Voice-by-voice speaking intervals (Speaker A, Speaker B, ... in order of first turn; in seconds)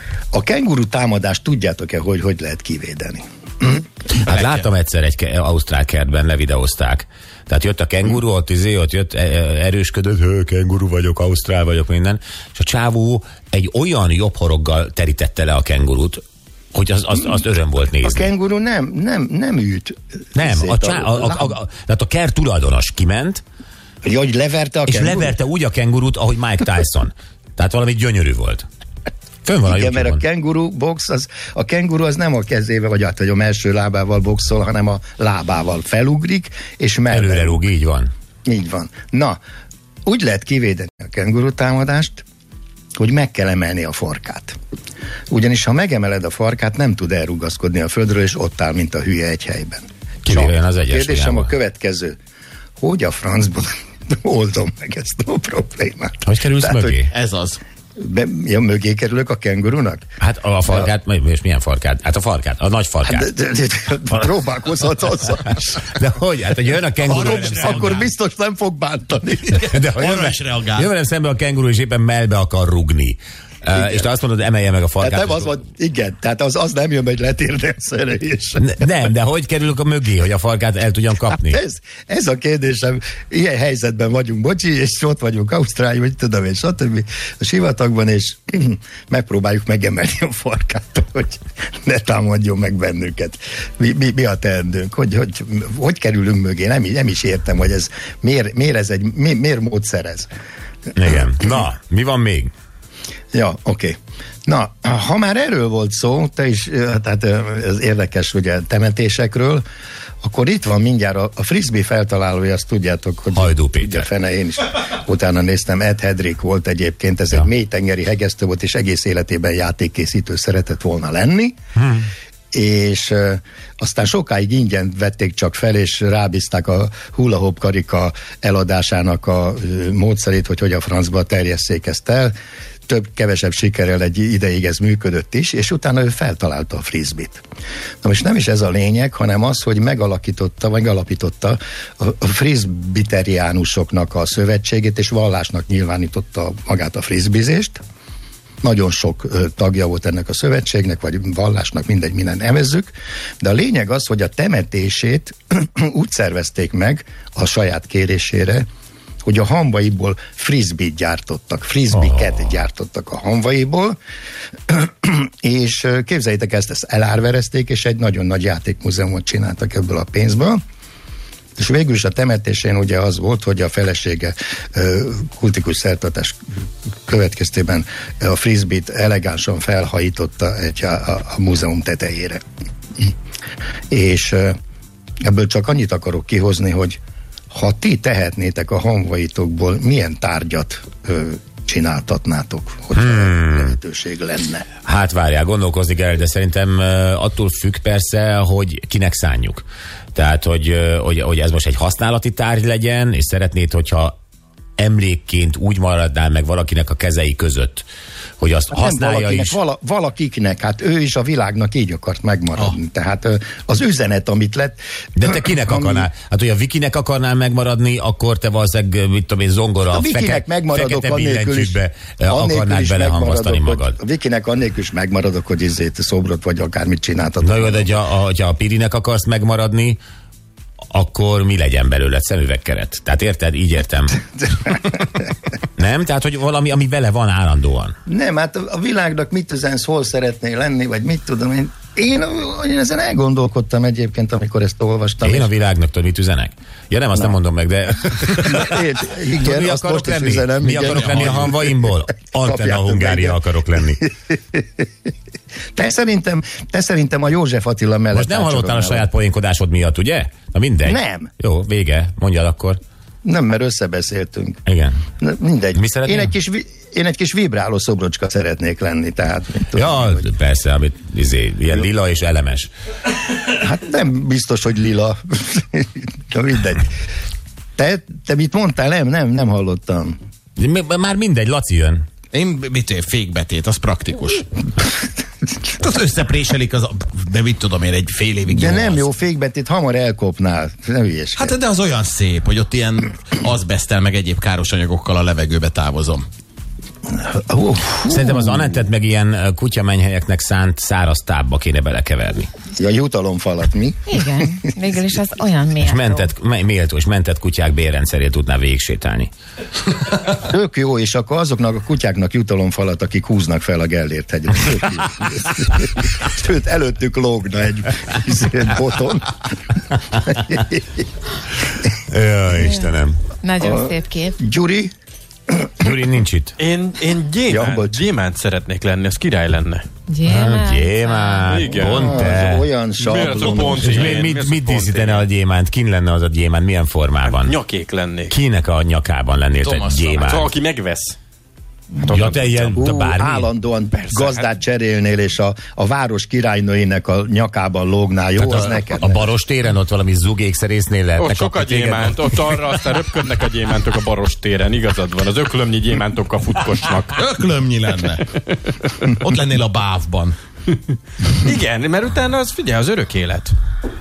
Speaker A: 0.3-3.8, 18.0-21.6, 24.0-25.4, 29.6-37.6, 38.5-39.4, 40.1-42.2, 43.0-44.6, 45.3-52.2, 52.8-57.0, 58.0-60.0, 63.0-65.8, 67.1-69.8, 73.7-74.1, 75.0-79.1, 81.3-100.3, 103.3-104.0, 104.5-109.6, 110.2-121.6, 122.5-132.3, 132.9-137.4, 138.0-147.8, 148.6-158.7, 159.2-164.0, 164.7-170.6, 171.6-176.3, 177.1-182.4, 183.9-184.6, 185.2-187.0, 187.5-194.7, 208.7-216.1, 219.9-227.9, 234.4-235.1, 238.1-245.5, 248.2-251.9, 252.4-254.6, 255.8-259.1, 260.9-261.3, 263.2-264.6, 265.2-270.3, 273.6-276.9, 277.8-280.2, 288.5-291.6, 297.1-298.9, 302.8-304.2, 310.3-319.4, 320.1-321.0, 323.6-324.9, 327.5-328.0, 331.8-334.2, 342.8-349.3
Speaker B: 4.2-16.2, 16.7-18.3, 20.4-23.4, 24.9-28.6, 29.4-30.2, 37.1-38.1, 50.2-51.5, 56.2-57.1, 60.2-63.3, 65.9-68.1, 69.7-75.5, 78.6-81.6, 101.0-102.5, 113.3-114.1, 121.8-122.1, 193.0-193.7, 194.8-204.1, 204.8-207.9, 208.4-209.6, 215.2-224.0, 227.4-230.0, 230.9-234.2, 235.8-237.9, 245.2-248.8, 249.3-254.0, 258.1-262.8, 264.6-265.0, 265.8-266.3, 269.8-272.7, 280.6-282.0, 298.1-302.5, 305.8-309.3, 322.1-323.2, 325.8-326.6, 330.2-332.7, 333.7-337.6, 338.3-340.5, 342.1-343.5, 348.4-352.5
Speaker C: 4.3-4.7, 57.1-57.6, 67.0-68.0, 69.8-70.9, 250.9-251.5, 282.3-284.4, 285.7-289.1, 291.4-296.2, 339.6-340.3, 357.2-358.2, 359.2-360.4
Speaker D: 304.1-306.2, 322.6-322.9, 323.4-324.4, 330.1-331.6
Speaker E: 326.6-329.9, 331.5-332.4, 333.0-335.2, 337.3-338.3, 340.2-341.2, 342.0-342.8, 344.1-344.4, 351.2-357.3, 358.5-359.1, 361.2-363.6